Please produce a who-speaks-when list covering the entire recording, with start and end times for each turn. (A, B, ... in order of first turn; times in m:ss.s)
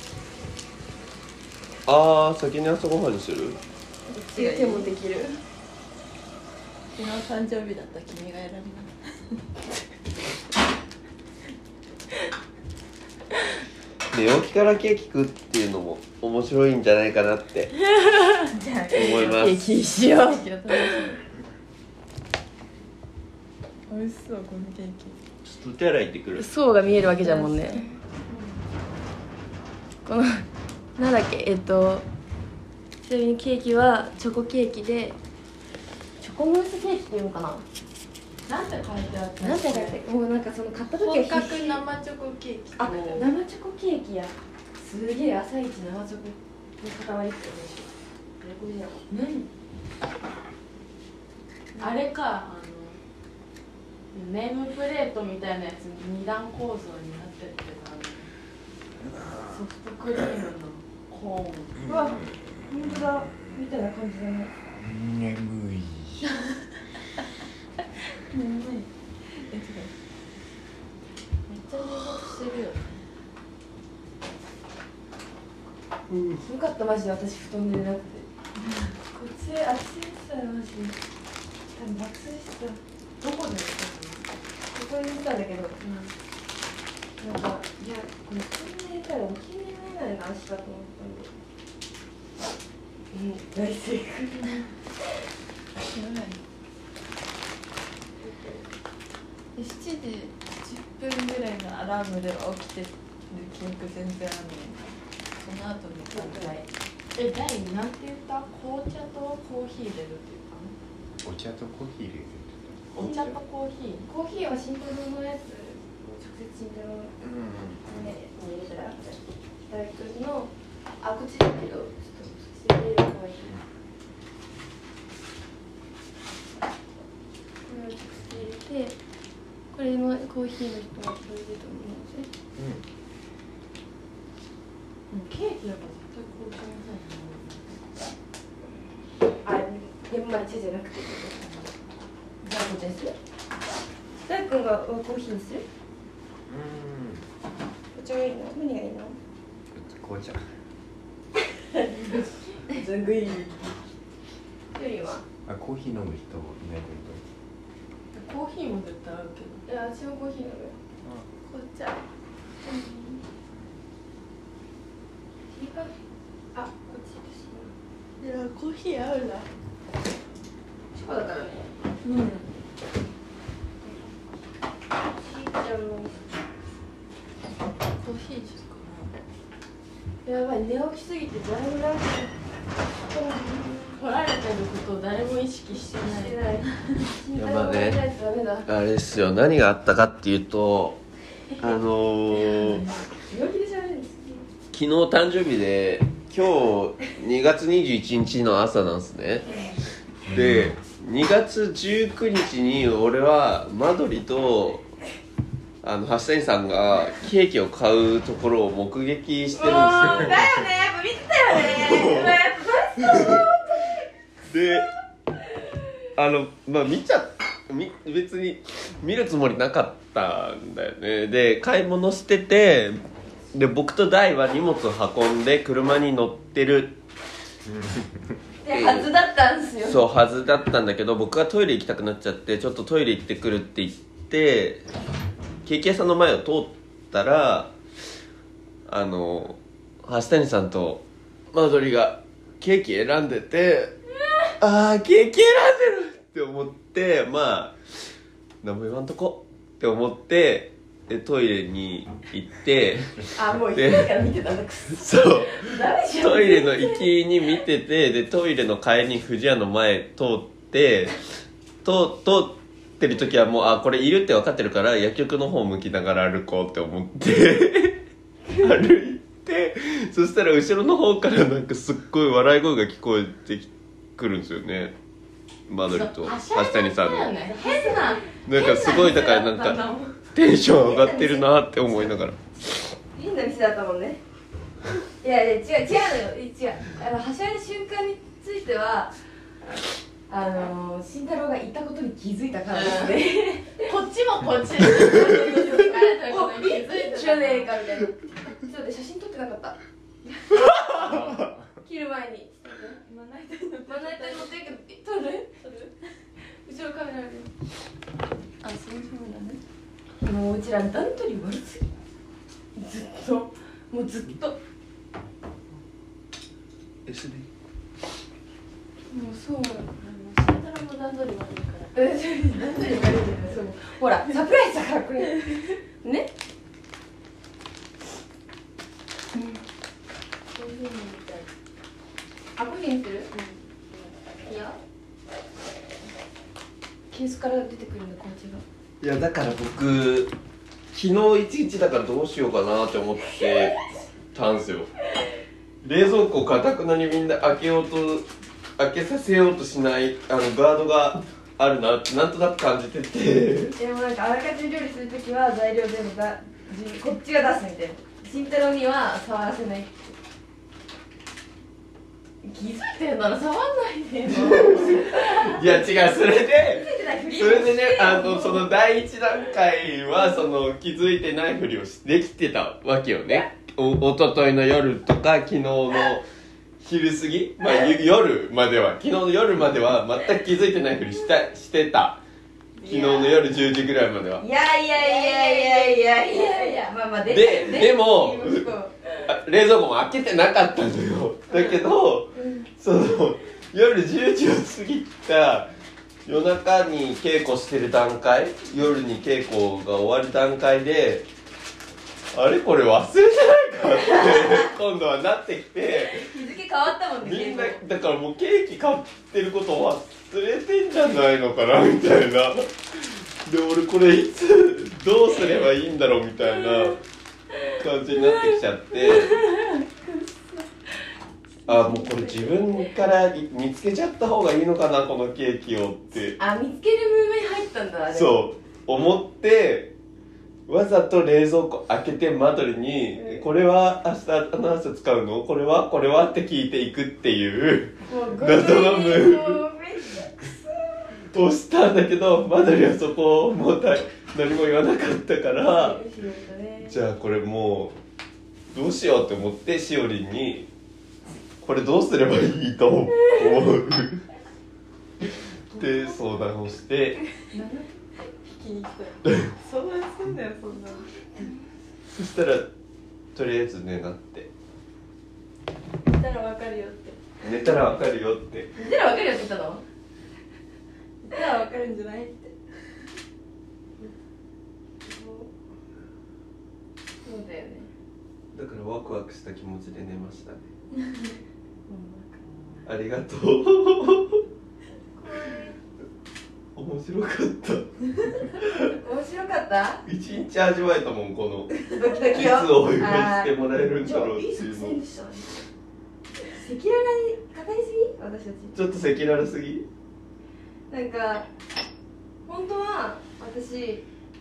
0:01.8-0:03.6 A
0:04.1-0:04.9 B
0:04.1-0:05.4 C
0:06.9-0:08.9 B
0:14.1-0:17.7 A
0:18.0-0:21.2 C
0:18.5-0:21.2 B
0:18.9-0:19.6 A
0:23.9-0:25.2 B
0:25.4-0:26.5 A
0:26.4-0:27.9 C
0:27.2-0:28.6 B
0:30.0-0:30.4 C
0:31.0-0:32.0 C
0:33.0-0:35.2 C
0:36.2-0:37.6 C
0:38.5-0:40.0 B
0:39.4-0:41.8 C
0:41.0-0:43.3 B
0:42.8-0:49.0 C
0:49.1-0:49.5 B
0:51.8-0:53.0 B
0:54.1-0:58.3 B
0:59.5-1:01.8 B
1:01.8-1:02.3 D
1:01.8-1:04.5 C
1:04.7-1:06.3 D
1:08.3-1:09.9 B
1:11.5-1:13.1 B
1:16.1-1:16.4 A
1:16.4-1:18.3 C
1:18.6-1:18.9 B
1:19.1-1:21.0 C
1:21.7-1:22.8 C
1:23.2-1:24.2 B
1:24.7-1:25.8 C
1:25.8-1:26.1 B
1:27.2-1:31.3 C
1:33.1-1:34.6 C
1:35.9-1:36.4 B
1:38.2-1:38.7 C
1:39.6-1:50.7 B
1:46.1-1:46.6 C
1:51.2-1:53.4 D
1:52.9-1:54.1 B
1:54.1-1:57.1 C
1:57.2-1:57.8 A
1:57.8-2:03.6 C
2:07.6-2:09.0 C
2:09.7-2:12.3 C
2:12.6-2:12.8 D
2:15.1-2:17.8 B
2:19.4-2:21.7 C
2:22.4-2:23.1 C
2:24.2-2:25.6 C
2:26.5-2:27.2 D
2:27.9-2:29.2 C
2:29.7-2:30.5 D
2:32.0-2:32.6 B
2:32.7-2:33.6 C
2:34.7-2:35.2 C
2:35.4-2:37.2 D
2:38.1-2:39.6 B
2:39.6-2:40.8 C
2:41.4-2:42.0 B
2:42.6-2:43.2 C
2:45.5-2:45.9 C
2:46.5-2:47.7 C
2:48.2-2:49.5 B
2:50.9-2:51.7 C
2:52.0-2:52.5 B
2:53.8-2:54.1 C
2:55.2-2:56.2 C
2:58.0-2:59.1 B
3:00.2-3:02.3 C
3:03.0-3:04.0 C
3:03.9-3:06.4 B
3:05.9-3:08.7 C
3:07.3-3:08.0 A
3:08.7-3:11.0 A
3:11.6-3:12.9 A
3:12.3-3:13.1 B
3:13.3-3:14.5 C
3:14.7-3:19.5 A
3:20.3-3:20.7 D
3:20.3-3:24.8 A
3:25.8-3:30.5 A
3:29.6-3:34.0 C
3:31.5-3:32.4 A
3:33.0-3:33.4 A
3:34.5-3:34.9 A
3:36.2-3:47.0 A
3:48.6-3:50.0 C
3:48.7-3:49.1 A
3:49.8-3:54.8 A
3:55.6-3:57.7 A
3:58.9-4:01.0 A
4:01.5-4:03.9 A
4:04.6-4:07.8 A
4:08.6-4:14.1 A
4:13.3-4:17.1 C
4:14.9-4:21.2 A
4:21.8-4:28.0 A
4:28.6-4:34.9 A
4:35.7-4:37.3 A
4:35.9-4:40.2 B
4:37.5-4:38.4 C
4:38.4-4:42.4 A
4:40.7-4:41.4 C
4:43.1-4:44.2 C
4:45.2-4:49.1 C
4:50.3-4:53.9 C
4:52.7-4:53.2 B
4:53.8-4:57.8 B
4:55.2-5:01.2 C
5:01.0-5:01.6 D
5:01.8-5:03.0 C
5:03.0-5:04.7 B
5:03.8-5:05.7 C
5:06.6-5:07.5 C
5:08.6-5:09.6 B
5:10.2-5:11.9 C
5:12.7-5:14.6 C
5:17.0-5:17.5 A
5:19.1-5:19.9 C
5:20.0-5:22.0 B
5:21.9-5:26.3 C
5:22.5-5:23.4 B
5:29.3-5:29.6 C
5:30.6-5:31.4 B
5:32.6-5:33.3 C
5:33.3-5:33.6 B
5:33.9-5:34.8 C
5:37.1-5:38.6 C
5:39.0-5:40.3 A
5:40.9-5:43.8 A
5:44.3-5:44.9 A
5:45.8-5:53.8 A
5:53.8-6:00.1 C
6:02.4-6:05.8 C
6:04.3-6:16.3 A
6:06.7-6:08.7 C
6:16.8-6:22.2 A
6:22.8-6:23.3 B
6:22.8-6:24.4 A
6:24.4-6:29.2 C
6:25.0-6:26.9 B
6:27.2-6:28.7 A
6:29.2-6:35.7 A
6:31.5-6:31.8 C
6:32.3-6:32.7 C
6:36.2-6:41.3 A
6:42.3-6:46.3 A
6:45.9-6:47.8 C
6:47.2-6:57.0 A
6:57.7-6:59.5 A
6:59.6-6:59.8 C
7:01.6-7:06.4 A
7:01.7-7:02.8 C
7:06.4-7:08.4 C
7:08.1-7:09.9 A
7:10.7-7:19.6 A
7:13.2-7:13.4 C
7:18.0-7:21.1 C
7:21.3-7:26.0 A
7:25.6-7:27.0 C
7:26.9-7:28.0 A
7:28.7-7:30.7 A
7:31.6-7:34.2 A
7:35.7-7:37.2 A
7:35.8-7:36.2 B
7:37.5-7:41.1 B
7:41.0-7:41.5 C
7:42.1-7:42.7 A
7:43.3-7:44.5 A
7:46.1-7:47.2 B
7:47.4-7:48.7 A
7:48.8-7:49.8 C
7:51.2-7:52.5 B
7:55.0-7:55.5 C
7:57.2-7:57.9 C
7:58.5-8:00.7 A
8:01.9-8:02.4 C
8:02.8-8:04.4 A
8:05.2-8:05.8 C
8:06.8-8:08.9 A
8:08.9-8:10.0 C
8:10.0-8:15.0 A
8:11.7-8:15.6 C
8:16.4-8:18.8 C
8:18.7-8:19.9 A
8:20.9-8:21.5 C
8:22.4-8:24.0 C